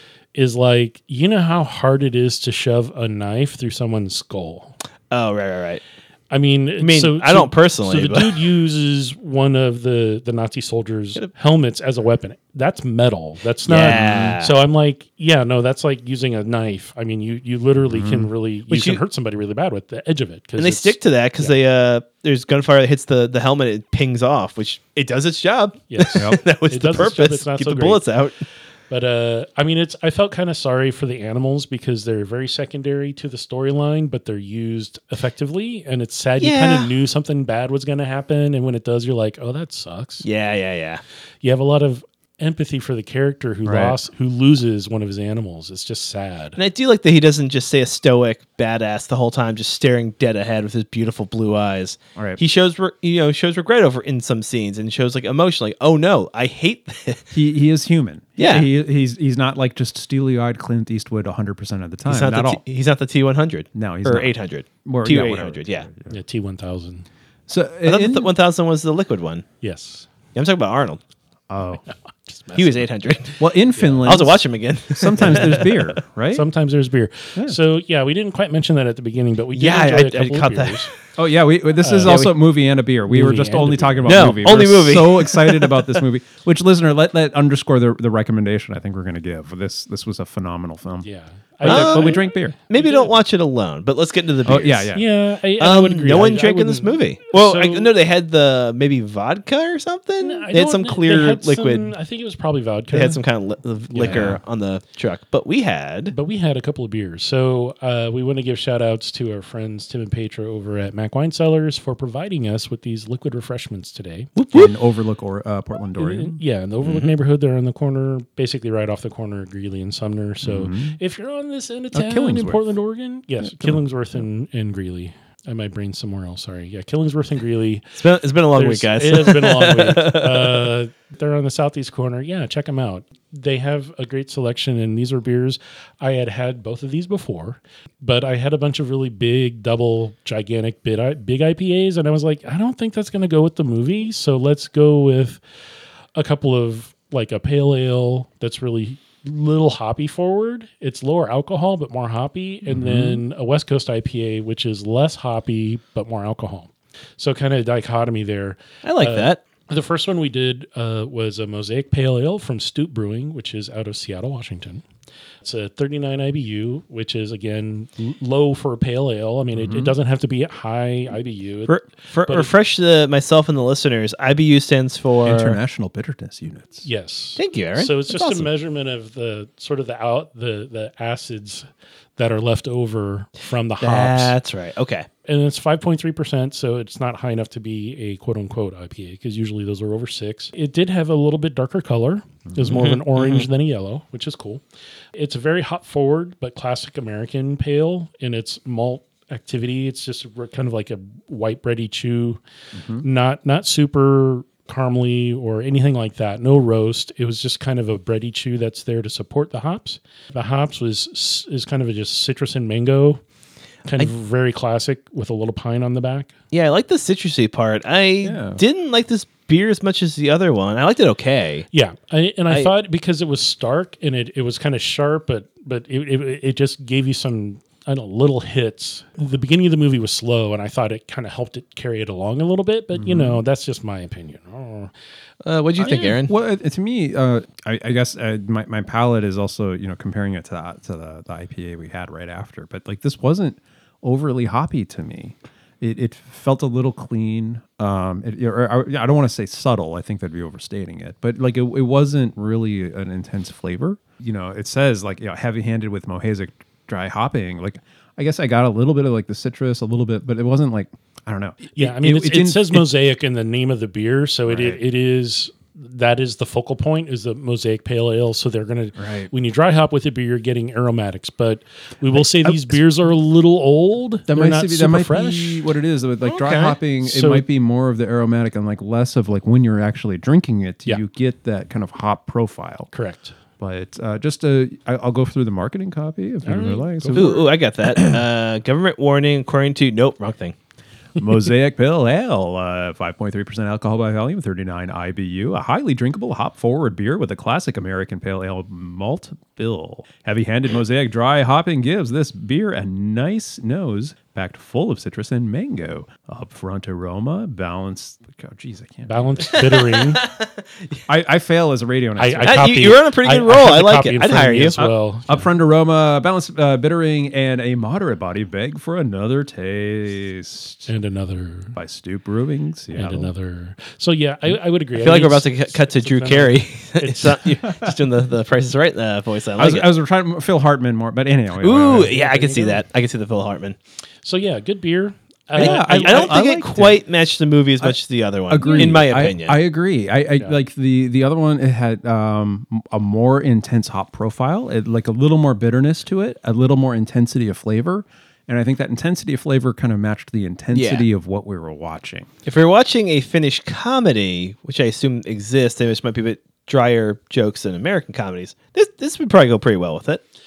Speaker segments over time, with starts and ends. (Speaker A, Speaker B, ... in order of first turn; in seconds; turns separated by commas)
Speaker A: 0.3-4.8, Speaker B: 5.1-5.8, Speaker A: 6.3-21.6, Speaker B: 6.8-8.5, Speaker B: 13.7-14.6, Speaker C: 13.8-14.4, Speaker C: 17.9-18.3, Speaker B: 18.7-19.0, Speaker B: 20.6-28.4, Speaker A: 25.9-28.0, Speaker A: 28.9-40.2, Speaker B: 36.4-36.9, Speaker B: 40.2-41.0, Speaker A: 41.4-46.6, Speaker C: 43.6-44.0, Speaker B: 46.6-57.3, Speaker C: 57.3-62.6, Speaker B: 58.4-58.7, Speaker B: 62.1-65.9, Speaker C: 63.7-64.3, Speaker C: 64.8-66.1, Speaker A: 66.1-67.1, Speaker C: 67.5-68.3, Speaker B: 67.8-69.5, Speaker A: 69.6-70.1, Speaker B: 70.3-71.0, Speaker C: 71.5-71.8, Speaker A: 72.3-72.8, Speaker B: 72.5-73.5, Speaker C: 73.4-74.4, Speaker A: 73.8-74.1, Speaker B: 74.0-76.0, Speaker C: 74.9-76.5, Speaker A: 76.3-80.9, Speaker B: 79.5-81.0, Speaker C: 81.2-91.1, Speaker A: 81.8-82.2, Speaker B: 82.0-82.3, Speaker A: 83.1-84.4, Speaker B: 84.1-86.0, Speaker A: 91.0-93.1, Speaker C: 91.6-92.5, Speaker B: 91.7-94.9, Speaker C: 94.5-95.1, Speaker A: 94.9-97.9, Speaker B: 95.6-101.9, Speaker A: 100.2-103.2, Speaker B: 102.9-106.2, Speaker A: 103.9-104.4, Speaker C: 104.0-104.4, Speaker A: 106.1-114.3, Speaker B: 114.4-114.7, Speaker C: 114.5-116.4, Speaker A: 116.0-128.0, Speaker C: 120.4-121.0, Speaker C: 121.9-122.6, Speaker C: 123.4-123.8, Speaker B: 128.0-130.7, Speaker A: 128.5-145.4, Speaker A: 146.2-164.8, Speaker C: 152.7-153.2, Speaker B: 158.8-159.4, Speaker A: 165.4-172.5, Speaker C: 169.6-169.9, Speaker B: 171.7-175.6, Speaker C: 175.2-176.9, Speaker A: 176.8-181.7, Speaker B: 177.4-178.5, Speaker A: 182.2-184.4, Speaker B: 183.8-185.1, Speaker A: 185.2-194.6, Speaker C: 192.5-192.8, Speaker B: 192.7-193.5, Speaker A: 195.2-202.4, Speaker C: 202.7-203.1, Speaker A: 203.0-213.2, Speaker A: 213.8-216.3, Speaker B: 216.5-221.7, Speaker C: 218.2-218.6, Speaker A: 221.7-234.9, Speaker C: 232.9-233.4, Speaker B: 235.4-236.3, Speaker C: 235.8-262.9, Speaker A: 261.7-275.7, Speaker C: 264.5-264.8, Speaker C: 269.0-269.3, Speaker C: 272.1-272.8, Speaker C: 274.3-282.9, Speaker B: 276.2-276.8, Speaker A: 277.0-277.4, Speaker A: 282.9-283.4, Speaker C: 283.6-288.2, Speaker A: 286.4-287.4, Speaker B: 287.1-290.6, Speaker C: 291.2-309.6, Speaker A: 309.1-310.2, Speaker B: 309.5-310.5, Speaker C: 311.1-312.7, Speaker A: 312.2-315.5, Speaker B: 312.4-314.8, Speaker C: 314.8-320.9, Speaker A: 320.9-321.8, Speaker C: 321.7-323.3, Speaker A: 322.9-327.4, Speaker B: 324.9-329.9, Speaker C: 327.6-328.0, Speaker C: 329.6-332.1, Speaker B: 331.6-333.8, Speaker A: 331.9-332.8, Speaker A: 334.2-336.4, Speaker C: 335.6-337.0, Speaker B: 335.6-339.6, Speaker C: 338.5-352.3, Speaker A: 338.6-339.0, Speaker B: 350.7-351.1, Speaker B: 352.5-360.2